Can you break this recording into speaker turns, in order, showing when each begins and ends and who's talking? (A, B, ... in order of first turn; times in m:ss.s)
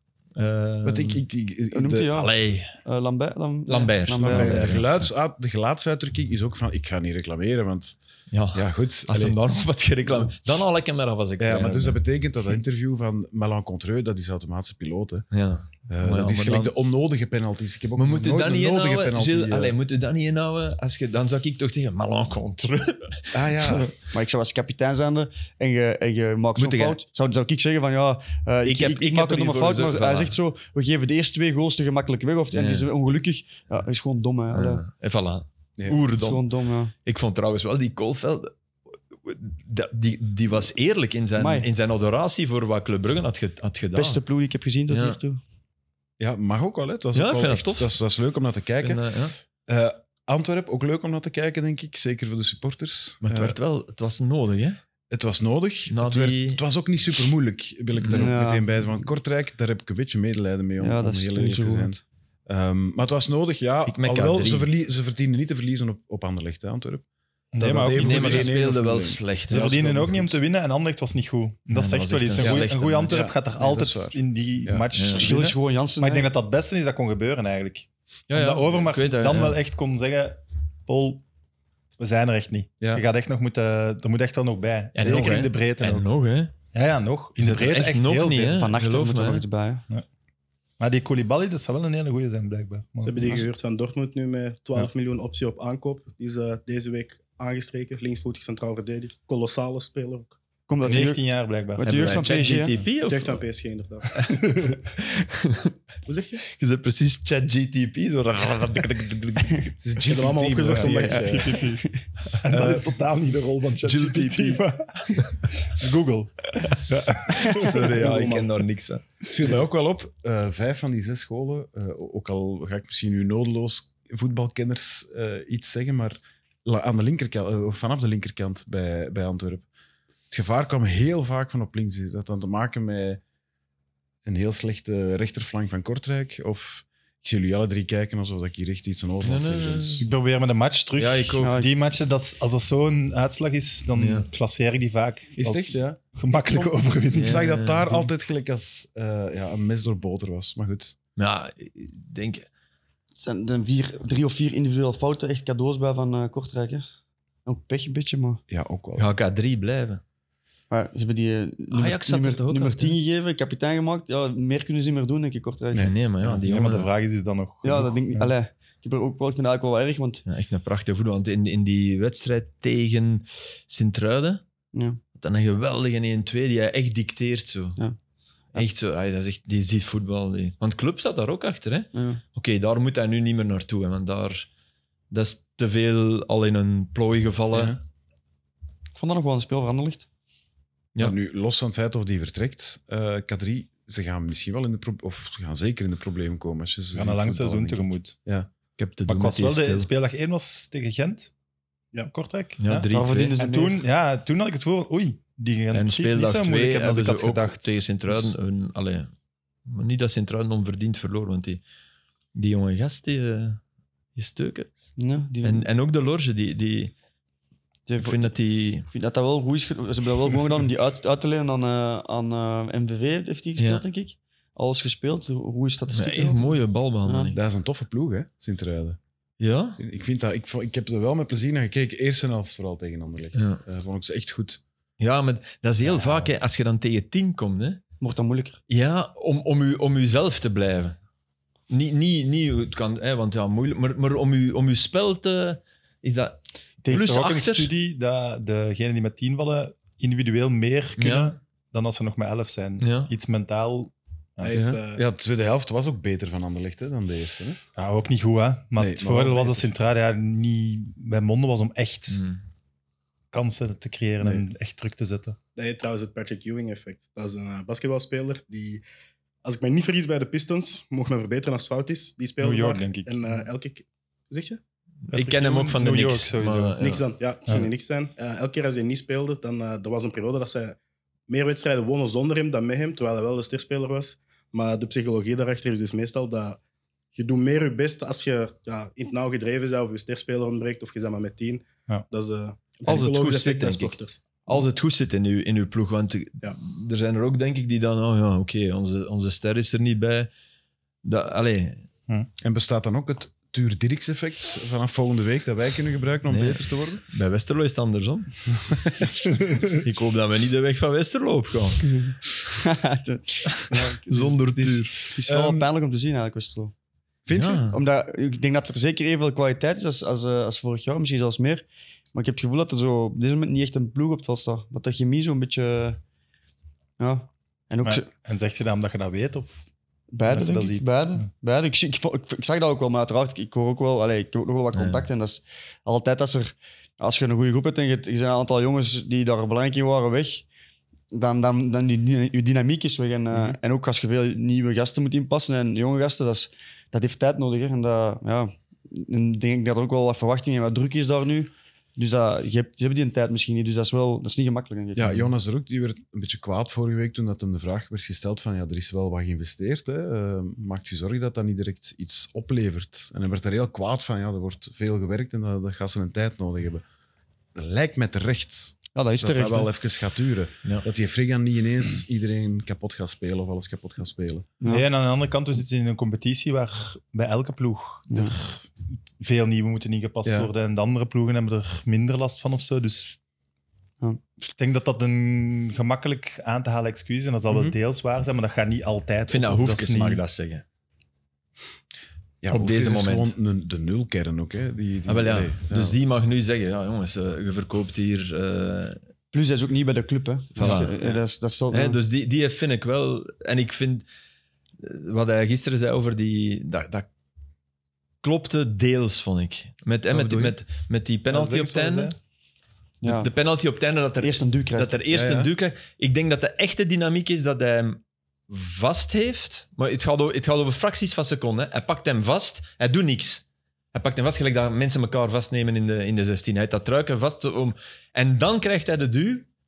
0:00.4-0:01.2 A
0:00.8-0:02.1 B
0:01.7-0:04.8 C
0:02.1-0:02.7 A
0:03.7-0:05.1 A
0:04.2-0:08.0 B
0:08.3-0:12.0 A
0:08.5-0:09.4 B
0:11.4-0:15.3 B
0:15.3-0:16.7 A
0:15.9-0:19.8 B
0:18.0-0:23.9 A
0:23.3-0:23.9 B
0:24.1-0:34.8 C
0:26.6-0:27.0 A
0:28.6-0:30.4 A
0:32.5-0:32.9 A
0:34.5-0:36.4 A
0:36.1-0:36.9 C
0:37.0-0:38.5 A
0:39.2-0:44.2 A
0:41.4-0:41.7 C
0:43.9-0:45.4 C
0:44.9-0:45.2 A
0:46.2-0:49.0 B
0:47.1-0:47.9 A
0:48.8-0:49.4 A
0:49.7-0:53.6 B
0:53.2-0:54.8 A
0:55.1-1:07.0 B
0:55.9-0:56.6 A
0:58.0-0:58.3 A
0:58.1-0:58.7 C
1:00.8-1:02.0 C
1:03.9-1:04.7 A
1:07.5-1:08.5 D
1:07.6-1:10.3 B
1:07.9-1:09.8 A
1:09.5-1:21.2 D
1:11.7-1:13.2 A
1:12.4-1:14.9 B
1:15.0-1:15.4 A
1:15.1-1:16.3 C
1:18.3-1:19.6 A
1:22.0-1:26.1 D
1:25.0-1:26.5 A
1:26.7-1:28.6 D
1:27.4-1:29.4 A
1:28.5-1:29.8 C
1:30.8-1:33.4 D
1:33.0-1:40.4 E
1:40.7-1:41.2 C
1:40.8-1:42.2 D
1:41.8-1:42.7 C
1:41.8-1:43.4 A
1:43.1-1:44.8 E
1:44.2-1:45.7 A
1:44.2-1:44.7 D
1:46.1-1:46.4 E
1:46.5-1:49.7 A
1:49.8-1:51.5 B
1:50.1-1:51.6 E
1:51.0-1:51.8 D
1:51.6-1:52.0 C
1:52.4-1:57.8 D
1:52.5-1:53.0 B
1:53.8-1:55.4 A
1:57.3-1:59.0 A
1:57.5-1:58.1 C
1:57.8-1:58.5 E
1:59.3-2:09.7 B
2:10.3-2:13.2 B
2:14.2-2:20.1 B
2:19.2-2:20.0 A
2:20.0-2:27.5 D
2:21.0-2:21.6 A
2:21.4-2:21.7 C
2:24.0-2:24.3 A
2:25.4-2:26.0 B
2:26.5-2:31.0 B
2:27.1-2:28.0 A
2:31.2-2:32.5 A
2:33.2-2:36.9 C
2:37.4-2:38.4 C
2:38.5-2:39.1 B
2:39.0-2:40.0 A
2:40.7-2:45.9 C
2:41.7-2:43.0 A
2:45.8-2:46.9 A
2:46.3-2:48.3 D
2:47.6-2:50.2 C
2:50.3-2:54.4 A
2:54.7-2:55.0 C
2:55.2-2:57.8 A
2:58.6-3:04.5 A
3:01.9-3:02.2 C
3:05.1-3:07.8 A
3:07.5-3:07.8 B
3:09.0-3:10.1 C
3:11.0-3:18.5 B
3:17.0-3:18.2 D
3:18.8-3:19.9 A
3:19.1-3:21.3 D
3:22.1-3:28.3 D
3:22.6-3:23.4 A
3:22.9-3:23.8 C
3:25.7-3:29.1 A
3:29.7-3:31.6 A
3:32.4-3:33.6 A
3:34.2-3:34.8 A
3:35.0-3:35.7 C
3:35.4-3:36.9 A
3:37.9-3:38.3 C
3:38.0-3:38.9 A
3:38.8-3:47.4 C
3:43.6-3:43.8 A
3:45.9-3:47.4 A
3:47.3-3:49.0 B
3:49.4-3:49.8 A
3:49.8-3:54.6 B
3:53.4-3:53.6 A
3:55.0-3:57.8 A
3:55.8-3:56.3 B
3:58.0-3:58.6 C
3:58.7-4:01.0 A
4:01.7-4:07.7 A
4:06.8-4:07.1 C
4:06.9-4:14.6 D
4:11.0-4:11.4 A
4:12.8-4:13.1 A
4:14.4-4:15.0 E
4:14.4-4:17.6 B
4:17.8-4:22.3 D
4:18.8-4:19.7 B
4:22.1-4:22.4 A
4:23.3-4:25.4 D
4:25.6-4:28.8 E
4:29.4-4:34.6 E
4:32.4-4:33.4 D
4:35.1-4:37.0 A
4:35.1-4:36.8 D
4:36.8-4:40.8 E
4:41.3-4:46.6 E
4:47.2-4:54.2 E
4:52.9-5:00.3 A
5:01.0-5:01.8 A
5:02.4-5:07.0 B
5:06.3-5:08.6 A
5:08.7-5:09.1 B
5:09.7-5:11.9 A
5:11.8-5:16.7 C
5:13.7-5:15.0 A
5:15.3-5:15.7 B
5:17.3-5:17.7 B
5:17.3-5:17.8 A
5:17.7-5:26.0 C
5:27.0-5:28.1 C
5:27.8-5:29.7 D
5:30.1-5:40.5 C
5:30.3-5:31.3 D
5:34.7-5:35.1 A
5:41.1-5:55.3 C
5:55.0-6:06.8 B
6:07.6-6:14.5 B
6:09.0-6:09.7 C
6:14.6-6:18.7 D
6:19.2-6:23.2 D
6:20.2-6:20.5 B
6:24.4-6:30.2 D
6:27.5-6:27.8 B
6:29.3-6:30.6 A
6:32.4-6:36.0 B
6:32.5-6:33.4 A
6:35.1-6:39.0 A
6:39.3-6:42.0 C
6:40.6-6:44.1 A
6:44.8-6:47.1 A
6:48.2-6:52.1 A
6:50.1-6:50.6 B
6:51.3-6:52.2 D
6:53.0-6:53.3 C
6:53.0-7:09.5 A
6:54.2-6:55.0 C
6:55.1-6:55.5 B